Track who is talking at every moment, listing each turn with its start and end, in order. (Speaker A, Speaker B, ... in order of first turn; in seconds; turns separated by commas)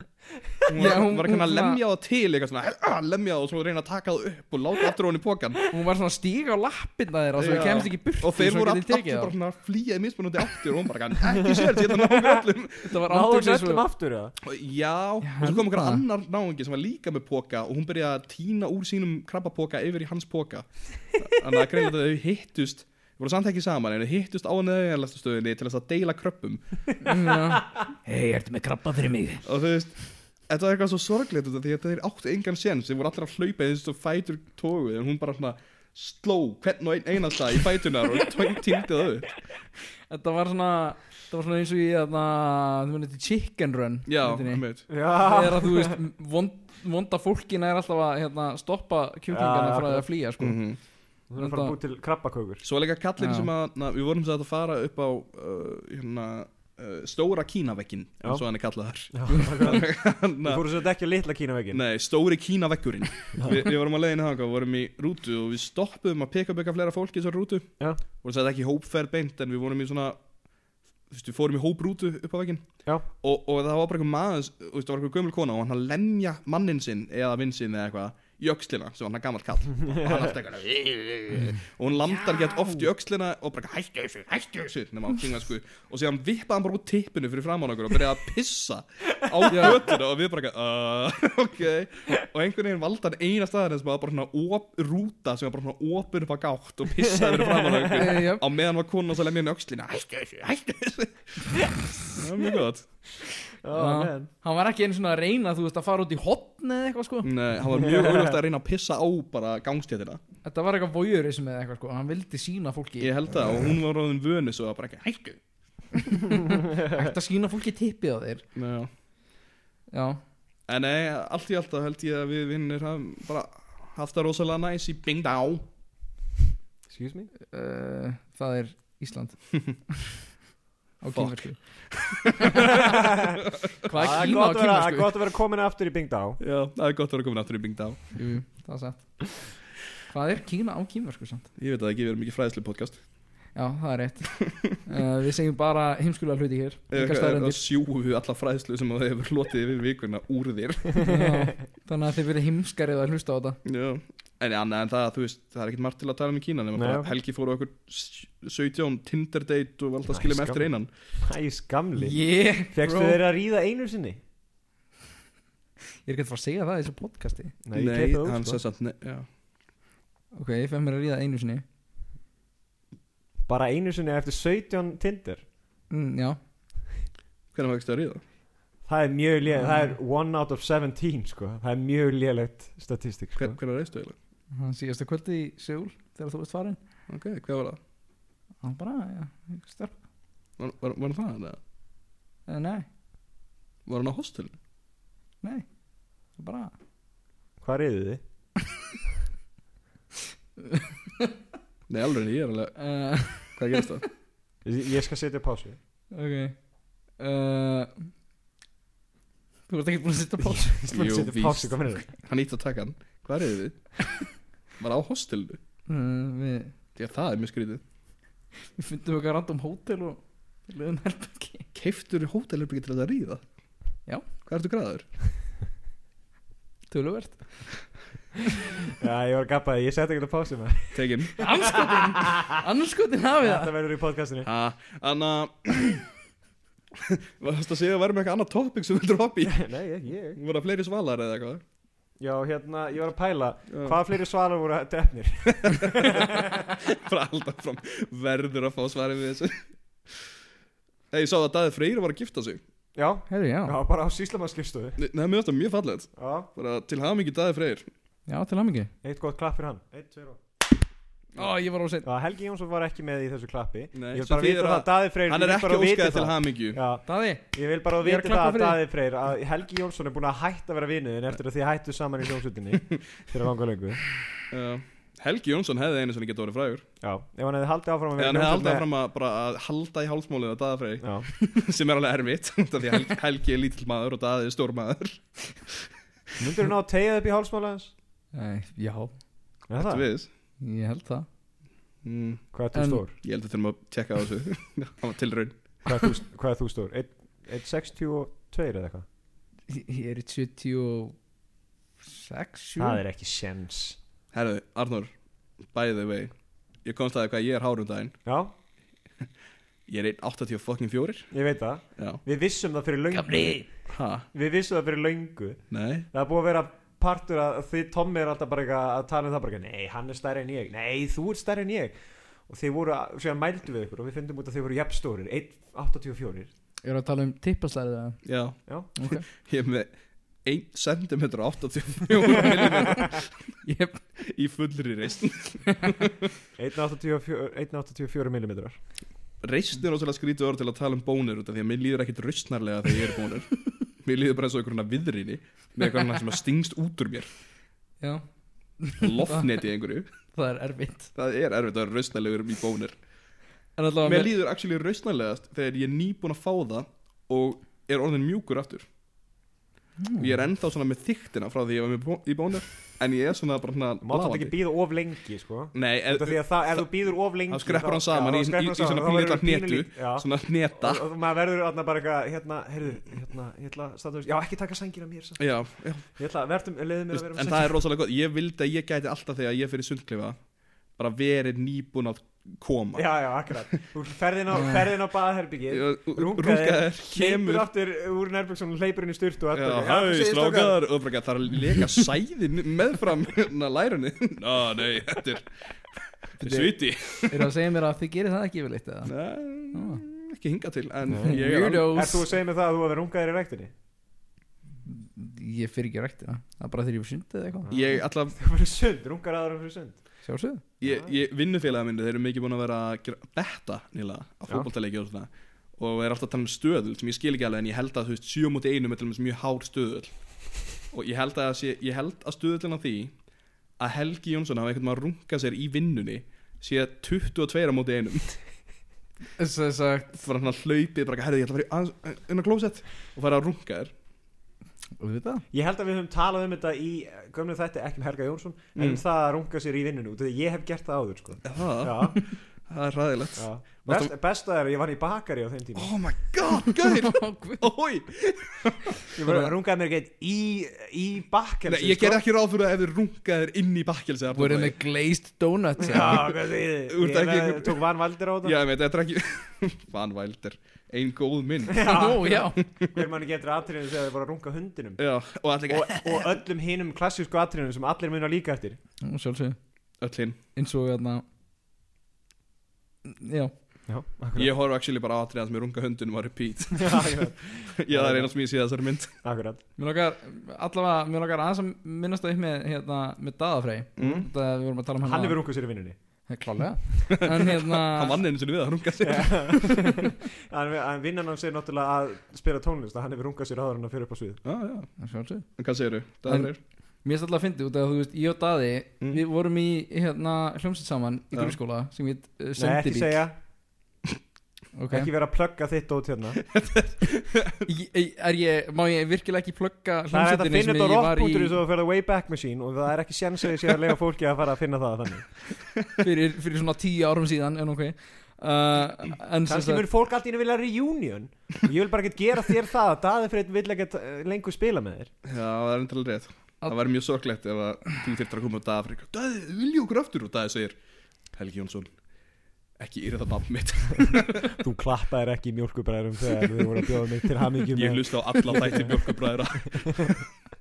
Speaker A: 0.6-5.7, Speaker B: 0.8-1.8, Speaker B: 5.7-9.3, Speaker A: 7.4-12.9, Speaker C: 11.4-12.4, Speaker B: 12.9-13.8, Speaker C: 13.0-14.3, Speaker A: 14.4-26.8, Speaker B: 15.2-16.0, Speaker B: 27.0-29.4, Speaker A: 29.4-39.4, Speaker B: 40.1-44.6, Speaker A: 44.1-44.9, Speaker C: 44.9-46.0, Speaker B: 45.1-50.6, Speaker C: 49.3-50.1, Speaker A: 50.4-50.8, Speaker C: 51.3-52.6, Speaker B: 51.4-51.8, Speaker A: 52.6-60.6, Speaker B: 53.2-53.5, Speaker C: 59.1-59.9, Speaker C: 60.4-61.8, Speaker A: 61.7-70.2, Speaker A: 71.1-102.9, Speaker C: 79.9-80.2, Speaker B: 82.6-82.8, Speaker B: 89.5-89.8, Speaker C: 97.1-97.9, Speaker B: 98.0-98.4, Speaker C: 103.6-104.3, Speaker B: 103.7-107.3, Speaker A: 107.2-110.2, Speaker C: 107.7-108.4, Speaker B: 110.5-113.1, Speaker A: 113.0-115.4, Speaker B: 116.1-118.4, Speaker C: 116.7-117.1, Speaker A: 118.5-118.9, Speaker B: 119.9-120.2, Speaker A: 120.7-125.7, Speaker C: 126.9-127.3, Speaker B: 127.5-129.9, Speaker B: 131.0-131.9, Speaker A: 131.1-133.1, Speaker B: 132.4-132.8, Speaker C: 132.9-133.4, Speaker B: 133.8-135.1, Speaker C: 133.9-136.4, Speaker A: 136.4-138.2, Speaker B: 138.2-139.3, Speaker B: 140.1-141.5, Speaker A: 141.6-143.0, Speaker B: 143.5-147.6, Speaker A: 144.4-144.7, Speaker A: 146.9-151.1, Speaker B: 151.0-153.6, Speaker A: 153.7-160.9, Speaker C: 156.8-157.1, Speaker C: 160.1-164.2, Speaker B: 162.0-163.2, Speaker B: 166.1-167.6, Speaker C: 167.7-168.6, Speaker A: 167.7-169.3, Speaker B: 170.3-171.6, Speaker C: 173.5-175.4, Speaker B: 175.9-176.4, Speaker A: 177.5-178.2, Speaker C: 178.8-183.6, Speaker B: 179.5-179.9, Speaker A: 183.4-184.1, Speaker B: 184.5-186.8, Speaker A: 187.1-187.8, Speaker B: 188.6-190.0, Speaker A: 190.6-191.6, Speaker B: 192.5-192.9, Speaker A: 193.9-194.6, Speaker B: 195.4-195.7, Speaker B: 196.3-196.7, Speaker C: 197.6-198.2, Speaker B: 200.7-201.3, Speaker A: 201.9-204.1, Speaker B: 202.8-203.6, Speaker C: 204.6-205.8, Speaker B: 206.1-206.6, Speaker B: 207.2-208.1, Speaker B: 209.7-210.8, Speaker C: 210.4-212.1, Speaker A: 210.9-215.6, Speaker B: 215.9-216.7, Speaker A: 216.9-217.8, Speaker B: 218.8-221.7, Speaker A: 221.7-223.4, Speaker A: 224.4-225.1, Speaker B: 226.9-227.7, Speaker C: 228.9-232.6, Speaker A: 230.9-231.3, Speaker B: 231.4-233.7, Speaker C: 233.4-234.5, Speaker A: 234.4-236.0, Speaker A: 237.0-239.6, Speaker C: 239.4-240.4, Speaker A: 240.4-241.6, Speaker C: 242.2-246.7, Speaker A: 243.7-244.0, Speaker A: 245.6-250.3, Speaker A: 251.1-252.6, Speaker C: 252.9-255.0, Speaker B: 253.3-253.7, Speaker A: 255.0-257.9, Speaker C: 256.2-256.5, Speaker B: 258.3-258.9, Speaker C: 259.0-260.4, Speaker B: 261.4-262.1, Speaker C: 262.0-274.0, Speaker A: 263.9-266.8, Speaker B: 267.1-267.4, Speaker B: 268.0-268.8, Speaker A: 274.5-276.9, Speaker C: 277.0-278.9, Speaker A: 278.2-285.9, Speaker C: 281.0-281.3, Speaker C: 286.4-287.9, Speaker B: 288.3-289.2, Speaker C: 289.7-290.1, Speaker A: 289.8-290.3, Speaker B: 290.6-291.3, Speaker A: 292.0-292.5, Speaker C: 292.5-293.2, Speaker B: 292.7-293.0, Speaker A: 293.2-296.1, Speaker C: 295.9-299.0, Speaker B: 299.7-301.2, Speaker B: 302.0-303.0, Speaker C: 302.8-304.0, Speaker A: 304.3-305.1, Speaker A: 305.7-306.3, Speaker A: 306.8-308.2, Speaker C: 308.2-308.5, Speaker A: 309.9-311.3, Speaker C: 311.3-313.7, Speaker B: 313.3-313.6, Speaker A: 313.9-314.3, Speaker C: 314.3-322.0, Speaker A: 315.7-316.1, Speaker C: 322.5-326.5, Speaker B: 326.8-328.3, Speaker A: 328.2-328.6, Speaker B: 329.0-329.2, Speaker A: 329.1-329.9, Speaker A: 330.4-333.4, Speaker B: 333.6-334.0, Speaker A: 334.2-336.1, Speaker C: 336.6-338.8, Speaker A: 339.4-347.3, Speaker B: 348.0-348.3, Speaker B: 348.8-349.5, Speaker A: 349.0-350.1, Speaker B: 350.3-351.1, Speaker A: 351.1-352.9, Speaker B: 353.8-354.3, Speaker A: 354.0-358.9, Speaker B: 360.0-360.3, Speaker A: 360.2-364.5, Speaker C: 364.0-375.4, Speaker A: 365.8-366.9, Speaker A: 367.5-371.0, Speaker A: 375.4-376.1, Speaker C: 376.2-377.7, Speaker A: 377.1-380.4, Speaker A: 381.0-383.1, Speaker C: 382.9-390.8, Speaker B: 384.5-384.8, Speaker A: 385.7-387.7, Speaker A: 389.5-395.6, Speaker A: 396.4-397.5, Speaker B: 396.4-399.1, Speaker A: 399.1-401.9, Speaker B: 399.7-400.0, Speaker C: 401.1-403.7, Speaker B: 401.2-402.2, Speaker B: 404.9-407.7, Speaker C: 407.6-410.0, Speaker A: 407.7-408.4, Speaker B: 410.3-410.6, Speaker A: 410.8-420.1, Speaker C: 410.8-411.1, Speaker A: 420.9-423.1, Speaker A: 423.8-428.4, Speaker B: 429.4-430.2, Speaker A: 430.2-433.9, Speaker B: 435.0-435.4, Speaker C: 435.5-442.2, Speaker A: 438.8-439.0, Speaker A: 441.4-444.1, Speaker C: 443.4-445.9, Speaker A: 445.8-449.4, Speaker B: 446.9-447.6, Speaker C: 449.2-452.2, Speaker A: 451.7-454.8, Speaker B: 454.4-456.3, Speaker C: 455.8-458.6, Speaker A: 456.9-457.8, Speaker A: 458.4-462.9, Speaker C: 461.7-465.0, Speaker B: 461.9-462.6, Speaker A: 465.0-466.4, Speaker C: 465.7-468.8, Speaker B: 469.0-469.6, Speaker A: 470.0-470.4, Speaker B: 470.6-471.2, Speaker B: 473.1-473.5, Speaker C: 473.9-474.5, Speaker A: 474.3-479.1, Speaker C: 476.8-478.4, Speaker C: 479.2-479.6, Speaker B: 479.8-485.4, Speaker A: 484.0-484.3, Speaker C: 484.0-484.3, Speaker C: 485.0-486.0, Speaker B: 486.3-488.2, Speaker A: 487.4-490.0, Speaker C: 489.0-494.4, Speaker A: 494.4-496.6, Speaker B: 495.0-495.6, Speaker B: 496.3-503.2, Speaker C: 502.6-503.4, Speaker B: 504.7-505.1, Speaker C: 504.9-506.4, Speaker A: 506.5-507.7, Speaker B: 507.6-511.6, Speaker C: 510.1-515.3, Speaker B: 516.0-519.9, Speaker C: 519.5-525.1, Speaker A: 525.2-530.8, Speaker A: 531.3-531.9, Speaker A: 532.8-534.6, Speaker C: 534.6-539.0, Speaker A: 537.7-540.3, Speaker C: 539.8-540.1